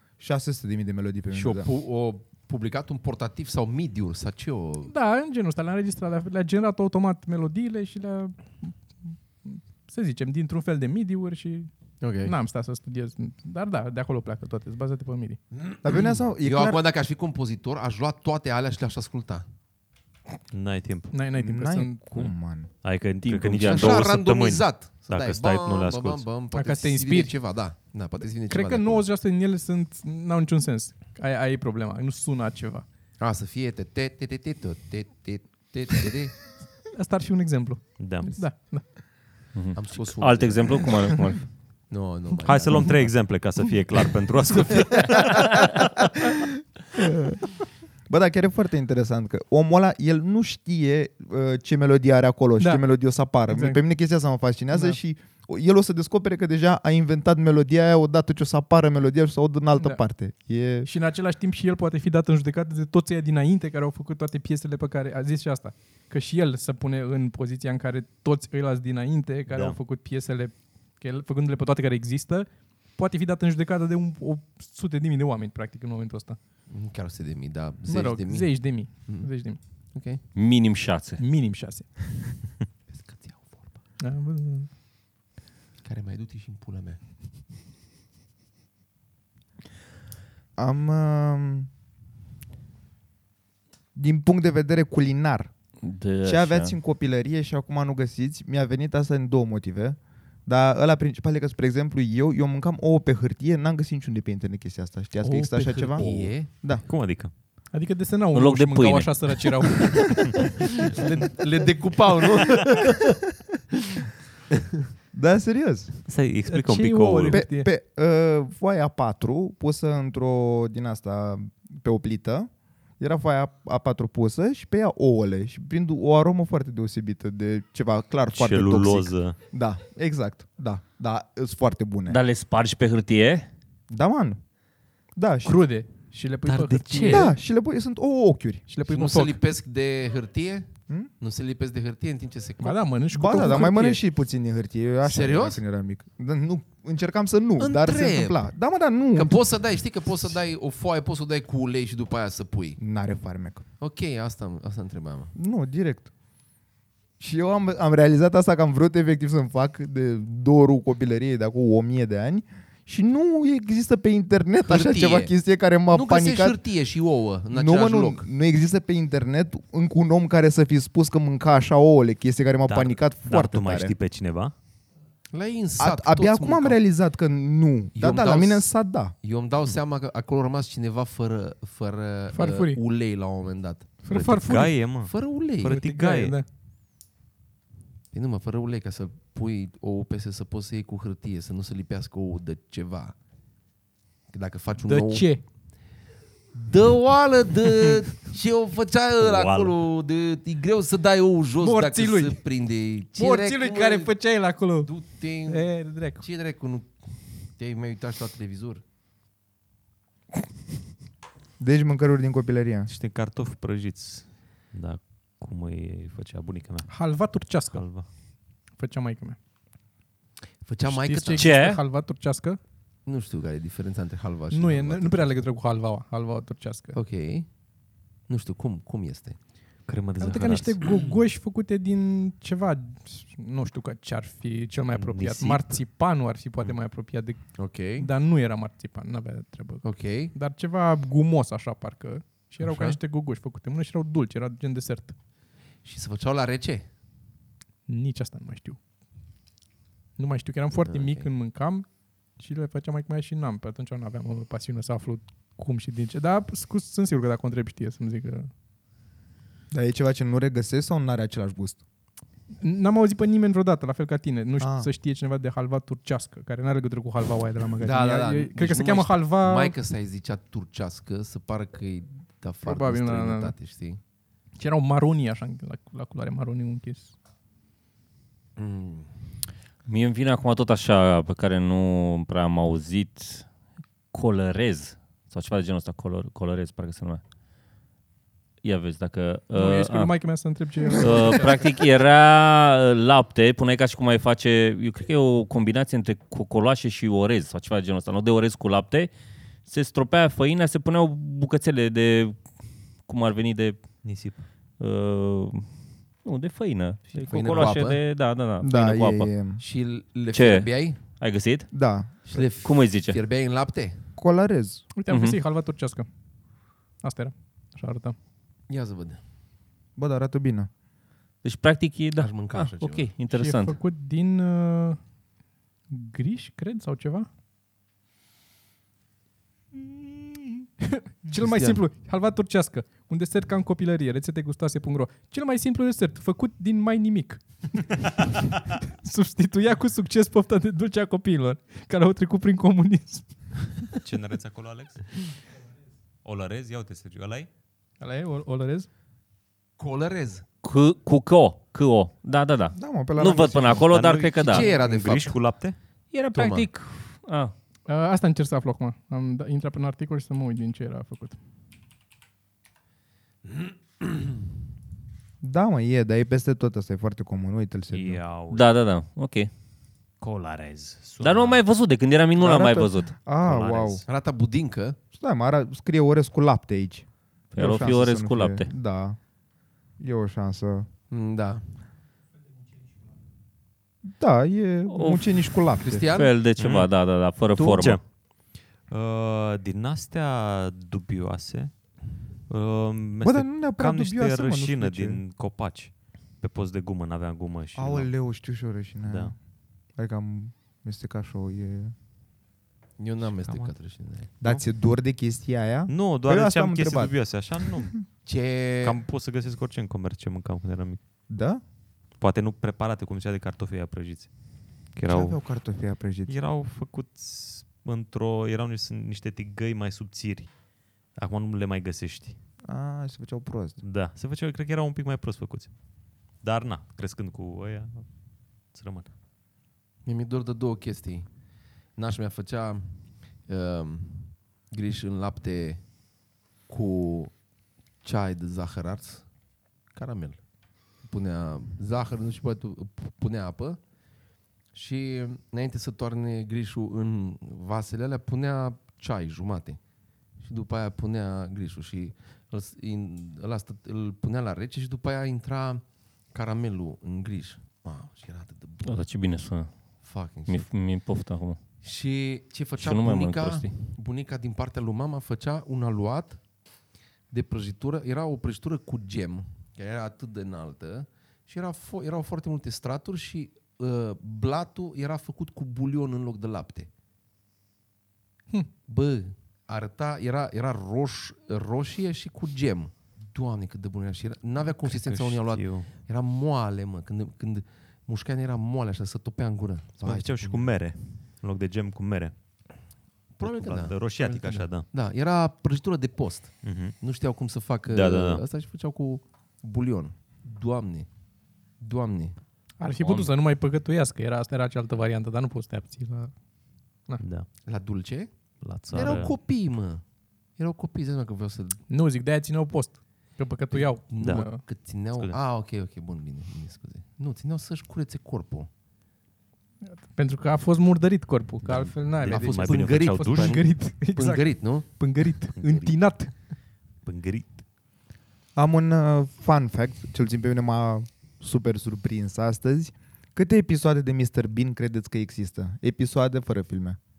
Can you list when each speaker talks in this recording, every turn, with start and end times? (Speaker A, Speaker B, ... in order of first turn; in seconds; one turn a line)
Speaker A: 0.2-1.7
Speaker B: 1.3-4.9
Speaker C: 4.9-11.7
Speaker B: 12.0-12.3
Speaker C: 12.2-15.4
Speaker B: 15.5-19.4
Speaker A: 15.8-16.8
Speaker D: 20.5-21.1
Speaker C: 21.1-22.0
Speaker A: 21.4-22.7
Speaker D: 22.8-26.3
Speaker E: 23.2-24.1
Speaker B: 23.6-29.0
Speaker C: 26.5-27.4
Speaker C: 28.5-32.8
Speaker B: 33.2-36.4
Speaker C: 36.9-38.9
Speaker D: 38.0-38.4
Speaker E: 39.5-41.5
Speaker B: 39.7-41.0
Speaker B: 41.9-43.1
Speaker D: 42.4-45.6
Speaker B: 44.6-45.7
Speaker A: 47.1-47.4
Speaker A: 48.1-60.9
Speaker C: 52.6-52.8
Speaker C: 53.5-53.8
Speaker C: 54.7-55.0
Speaker C: 59.8-60.0
Speaker C: 60.8-76.4
Speaker D: 69.5-69.8
Speaker B: 76.7-79.3
Speaker C: 77.9-79.6
Speaker B: 79.9-80.2
Speaker E: 80.3-81.2
Speaker C: 81.2-81.9
Speaker B: 82.9-83.7
Speaker C: 84.0-84.7
Speaker B: 85.8-87.0
Speaker A: 90.5-91.7
Speaker A: 93.9-95.5
Speaker E: 95.8-96.7
Speaker A: 96.2-106.8
Speaker B: 105.2-106.5
Speaker D: 106.1-107.3
Speaker C: 107.7-110.4
Speaker E: 108.3-109.6
Speaker B: 110.9-113.2
Speaker A: 115.1-116.0
Speaker D: 116.0-117.4
Speaker C: 116.5-117.7
Speaker A: 117.3-132.2
Speaker D: 128.3-129.4
Speaker E: 132.1-133.5
Speaker A: 133.9-134.4
Speaker A: 135.1-135.6
Speaker C: 135.4-137.3
Speaker E: 136.5-137.2
Speaker A: 137.1-138.6
Speaker C: 138.7-139.4
Speaker B: 138.9-142.8
Speaker C: 142.6-144.0
Speaker A: 143.1-149.4
Speaker B: 145.1-145.6
Speaker B: 147.6-148.4
Speaker B: 149.1-152.8
Speaker A: 152.8-153.6
Speaker B: 153.8-155.3
Speaker A: 155.3-156.1
Speaker A: 157.2-166.6
Speaker B: 164.7-165.3
Speaker B: 165.9-168.2
Speaker A: 167.5-173.9
Speaker D: 172.7-174.5
Speaker B: 175.3-176.8
Speaker A: 175.8-179.1
Speaker B: 177.9-184.0
Speaker C: 182.3-182.8
Speaker C: 184.0-184.8
Speaker D: 184.1-186.4
Speaker B: 185.0-185.8
Speaker C: 185.6-186.4
Speaker B: 188.1-193.1
Speaker B: 194.3-195.3
Speaker C: 194.8-195.4
Speaker B: 196.5-204.2
Speaker D: 199.2-199.8
Speaker C: 201.6-202.4
Speaker C: 203.2-204.9
Speaker B: 204.8-207.0
Speaker C: 205.4-206.2
Speaker B: 207.5-208.8
Speaker A: 211.6-212.9
Speaker D: 212.9-218.1
Speaker C: 216.9-218.1
Speaker C: 218.7-219.4
Speaker B: 220.6-221.5
Speaker C: 220.8-222.6
Speaker E: 221.4-221.8
Speaker B: 223.0-225.2
Speaker C: 224.5-227.0
Speaker B: 226.9-227.6
Speaker B: 228.3-229.4
Speaker D: 229.8-230.8
Speaker C: 230.2-245.1
Speaker D: 234.9-235.8
Speaker B: 237.5-238.1
Speaker B: 239.8-240.3
Speaker B: 242.6-242.9
Speaker B: 245.8-246.9
Speaker C: 247.9-248.8
Speaker C: 250.2-258.5
Speaker B: 250.8-251.3
Speaker A: 259.7-261.8
Speaker C: 262.6-269.7
Speaker A: 264.6-264.9
Speaker B: 267.8-274.0
Speaker C: 272.6-273.5
Speaker C: 274.6-277.1
Speaker B: 278.6-279.1
Speaker E: 279.9-283.4
Speaker E: 284.1-287.2
Speaker E: 288.6-290.1
Speaker C: 289.5-291.7
Speaker E: 290.9-299.1
Speaker E: 299.6-302.4
Speaker E: 303.1-303.8
Speaker D: 304.0-304.4
Speaker E: 304.8-305.7
Speaker E: 306.2-309.3
Speaker B: 307.1-308.0
Speaker A: 308.6-309.6
Speaker B: 309.6-311.0
Speaker E: 310.3-311.7
Speaker A: 311.7-312.1
Speaker B: 312.2-314.0
Speaker E: 312.6-313.2
Speaker A: 314.1-314.8
Speaker C: 314.9-316.1
Speaker E: 315.1-315.4
Speaker C: 317.0-318.1
Speaker B: 318.7-319.2
Speaker A: 319.9-320.7
Speaker E: 321.4-323.8
Speaker B: 322.2-323.1
Speaker C: 323.3-325.0
Speaker C: 325.9-327.3
Speaker C: 330.8-343.6
Speaker B: 331.3-331.8
Speaker D: 344.0-345.3
Speaker D: 346.2-347.5
Speaker C: 348.0-348.9
Speaker B: 349.8-350.4
Speaker E: 350.6-354.7
Speaker A: 352.8-353.8
Speaker D: 353.9-355.8
Speaker B: 354.4-355.4
Speaker E: 356.1-357.5
Speaker B: 356.3-356.6
Speaker C: 357.9-361.4
Speaker A: 365.4-368.2
Speaker D: 367.9-368.7
Speaker E: 368.5-369.5
Speaker D: 370.2-371.6
Speaker E: 371.2-373.1
Speaker A: 372.4-374.0
Speaker D: 373.4-374.0
Speaker B: 374.1-375.0
Speaker A: 375.1-379.2
Speaker E: 377.5-378.7
Speaker A: 380.0-380.9
Speaker B: 381.1-381.7
Speaker A: 384.0-386.1
Speaker E: 384.9-385.5
Speaker B: 385.8-386.3
Speaker E: 386.1-388.0
Speaker D: 386.6-386.9
Speaker D: 387.5-388.1
Speaker D: 388.9-391.8
Speaker D: 392.5-398.1
Speaker A: 393.2-395.2
Speaker A: 397.7-399.3
Speaker D: 399.1-399.3
Speaker A: 399.9-401.9
Speaker B: 403.0-404.3
Speaker D: 403.3-403.7
Speaker A: 404.4-407.1
Speaker D: 405.9-408.1
Speaker B: 408.2-409.0
Speaker D: 408.8-411.0
Speaker A: 411.3-411.6
Speaker D: 412.2-414.3
Speaker D: 414.9-415.4
Speaker A: 415.1-416.3
Speaker D: 416.3-420.5
Speaker D: 421.1-422.4
Speaker A: 422.6-423.8
Speaker D: 423.8-425.7
Speaker D: 426.4-429.1
Speaker B: 430.0-431.4
Speaker B: 431.9-435.9
Speaker B: 436.7-437.4
Speaker B: 438.0-439.3
Speaker B: 439.9-440.4
Speaker B: 441.0-443.8
Speaker B: 444.7-449.8
Speaker B: 450.4-459.0
Speaker E: 458.8-461.6
Speaker B: 460.0-460.7
Speaker B: 461.8-466.4
Speaker E: 462.8-463.7
Speaker B: 467.3-476.9
Speaker B: 478.9-490.7
Speaker D: 484.8-485.9
Speaker D: 490.0-492.4
Speaker B: 493.4-501.1
Speaker D: 493.4-494.9
Speaker D: 496.6-497.0
Speaker D: 497.9-498.4
Speaker B: 501.8-502.4
Speaker C: 502.8-506.3
Speaker D: 503.0-503.3
Speaker D: 507.2-507.5
Speaker B: 507.6-508.3
Speaker D: 508.6-509.4
Speaker B: 508.9-510.0
Speaker B: 510.6-511.8
Speaker C: 511.9-514.6
Speaker B: 513.7-518.7
Speaker D: 514.2-515.4
Speaker C: 519.8-526.3
Speaker D: 521.6-523.6
Speaker B: 522.2-524.9
Speaker D: 525.5-525.9
Speaker D: 527.0-527.6
Speaker A: 528.5-537.0